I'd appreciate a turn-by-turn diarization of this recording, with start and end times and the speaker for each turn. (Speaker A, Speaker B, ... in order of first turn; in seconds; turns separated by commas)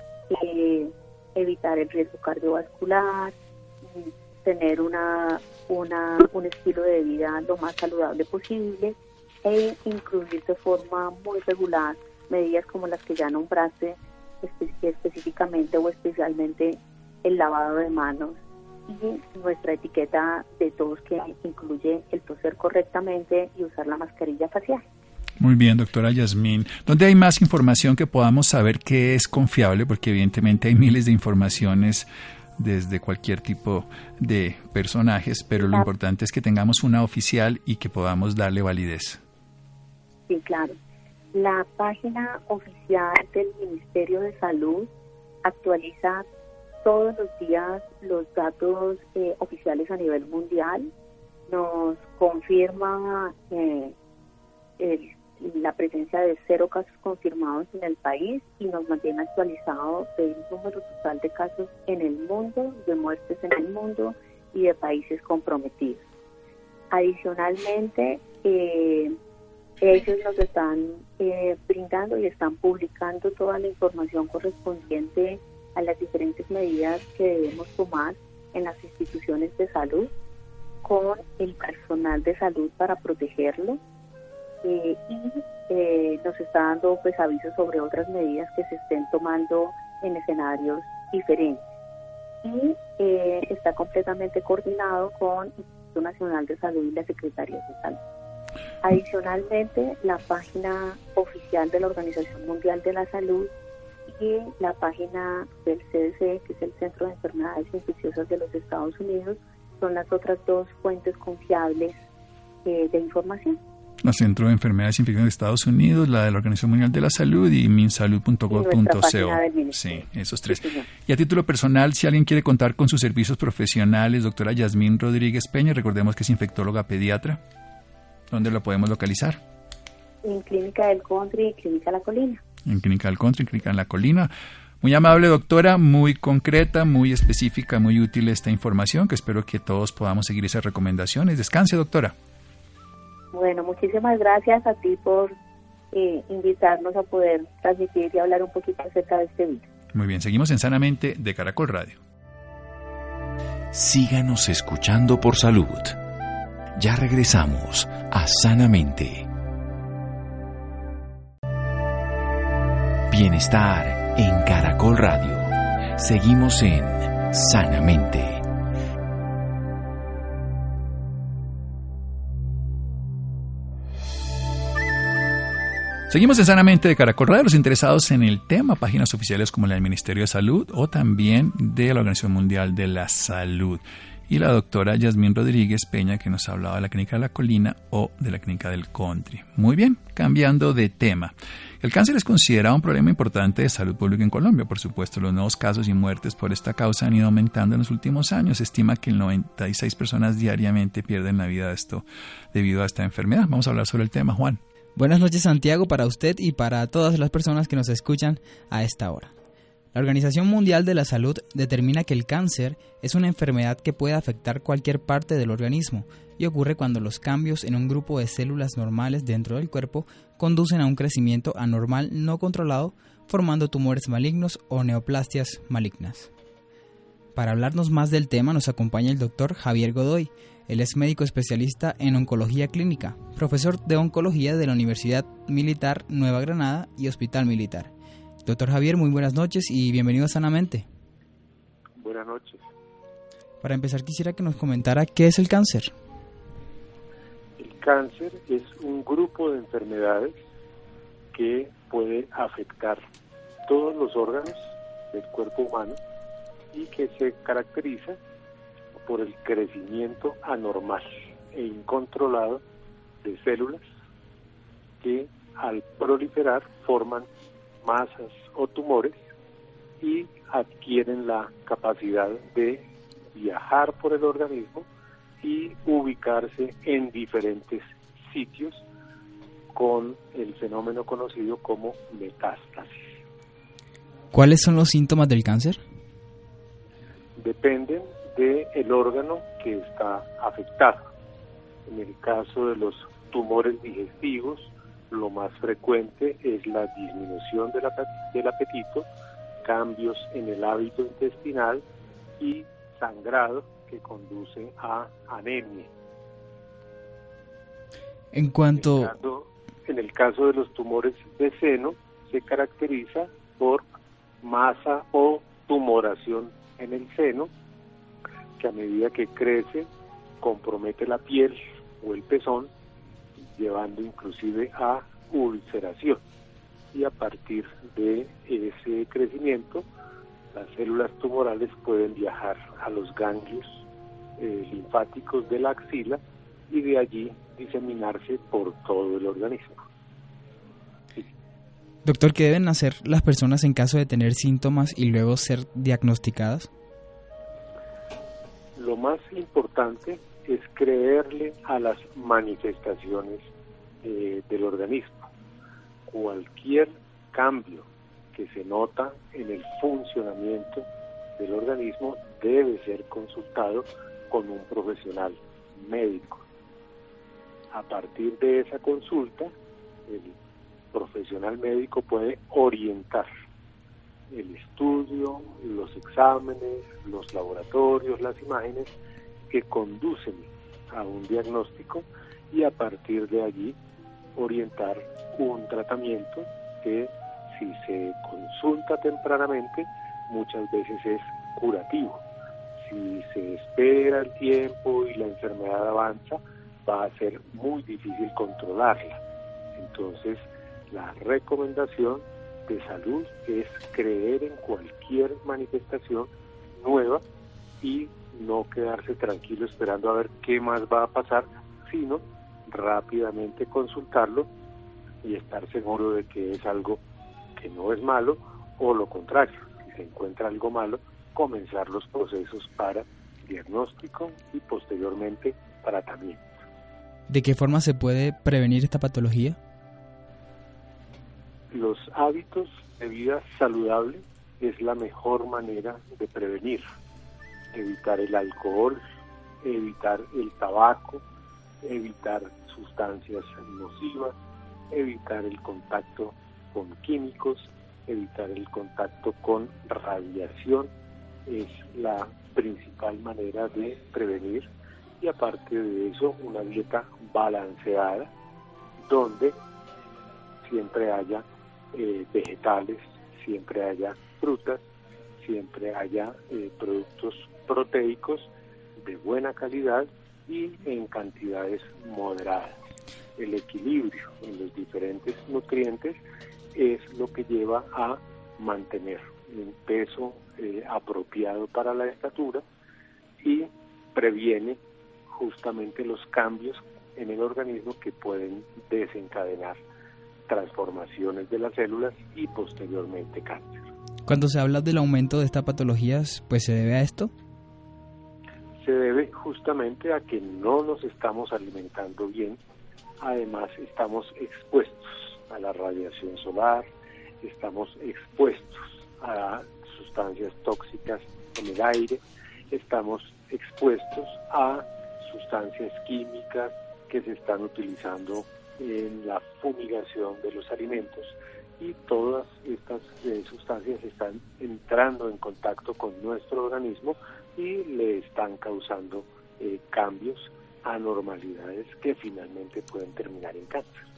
Speaker A: 0.3-24.8, Speaker B: 25.4-32.1, Speaker B: 32.6-39.2, Speaker A: 35.6-35.9, Speaker A: 40.3-40.8, Speaker A: 41.3-44.9, Speaker A: 45.4-46.2, Speaker A: 46.8-50.9, Speaker A: 51.5-53.9, Speaker A: 54.8-66.0, Speaker A: 66.9-69.2, Speaker A: 69.8-80.1, Speaker A: 80.8-83.8, Speaker A: 84.6-91.6, Speaker A: 92.4-98.0, Speaker A: 98.8-103.5, Speaker A: 104.1-112.0, Speaker A: 112.6-113.6, Speaker B: 114.0-127.4, Speaker A: 118.5-120.9, Speaker B: 128.3-129.4, Speaker A: 130.2-132.4, Speaker B: 132.6-134.3, Speaker B: 134.8-142.1, Speaker A: 143.3-145.3, Speaker A: 145.9-149.7, Speaker B: 149.9-152.0, Speaker C: 153.7-156.0, Speaker C: 156.7-159.3, Speaker C: 163.1-168.5, Speaker B: 176.1-204.6, Speaker D: 204.9-209.3, Speaker D: 209.9-226.3, Speaker D: 227.3-237.9, Speaker D: 238.4-240.8, Speaker E: 242.0-242.6, Speaker D: 243.6-245.9, Speaker E: 247.6-250.4, Speaker E: 251.3-253.0, Speaker E: 253.7-256.0, Speaker E: 256.7-258.2, Speaker E: 259.0-262.6, Speaker E: 263.2-263.9, Speaker E: 265.0-267.3, Speaker E: 267.8-269.3, Speaker E: 270.0-274.9, Speaker E: 275.4-278.8, Speaker E: 279.7-283.2, Speaker D: 284.3-285.8, Speaker E: 287.4-291.1, Speaker E: 291.9-299.1, Speaker E: 299.6-301.8, Speaker E: 302.4-305.9, Speaker D: 308.3-309.1, Speaker E: 308.7-313.9, Speaker E: 314.4-317.5, Speaker E: 318.6-319.9, Speaker E: 320.4-322.7, Speaker E: 323.5-326.2, Speaker E: 326.9-329.9, Speaker E: 330.5-333.8, Speaker E: 334.4-339.8, Speaker D: 342.0-346.7, Speaker E: 348.8-353.5, Speaker E: 354.0-355.3, Speaker E: 356.1-366.4, Speaker E: 367.7-369.5, Speaker E: 370.1-370.4, Speaker E: 370.9-373.3, Speaker E: 374.3-378.9, Speaker E: 379.5-383.8, Speaker E: 384.4-392.2, Speaker E: 392.8-399.2, Speaker E: 399.8-407.2, Speaker E: 407.8-414.5, Speaker E: 415.2-417.0, Speaker E: 417.6-426.5, Speaker D: 427.3-429.6, Speaker E: 431.7-436.8, Speaker E: 437.7-439.0, Speaker E: 439.6-441.2, Speaker E: 441.8-444.3, Speaker E: 444.9-450.9, Speaker E: 451.4-454.7, Speaker E: 455.2-458.3, Speaker E: 459.0-459.6, Speaker E: 460.6-464.9, Speaker E: 465.4-472.8, Speaker E: 473.4-476.2, Speaker E: 476.7-482.6, Speaker E: 483.4-484.8, Speaker E: 485.3-489.8, Speaker E: 490.5-493.8, Speaker D: 494.2-497.3, Speaker E: 498.8-502.6, Speaker E: 503.2-506.9, Speaker E: 507.4-512.2, Speaker E: 512.7-534.0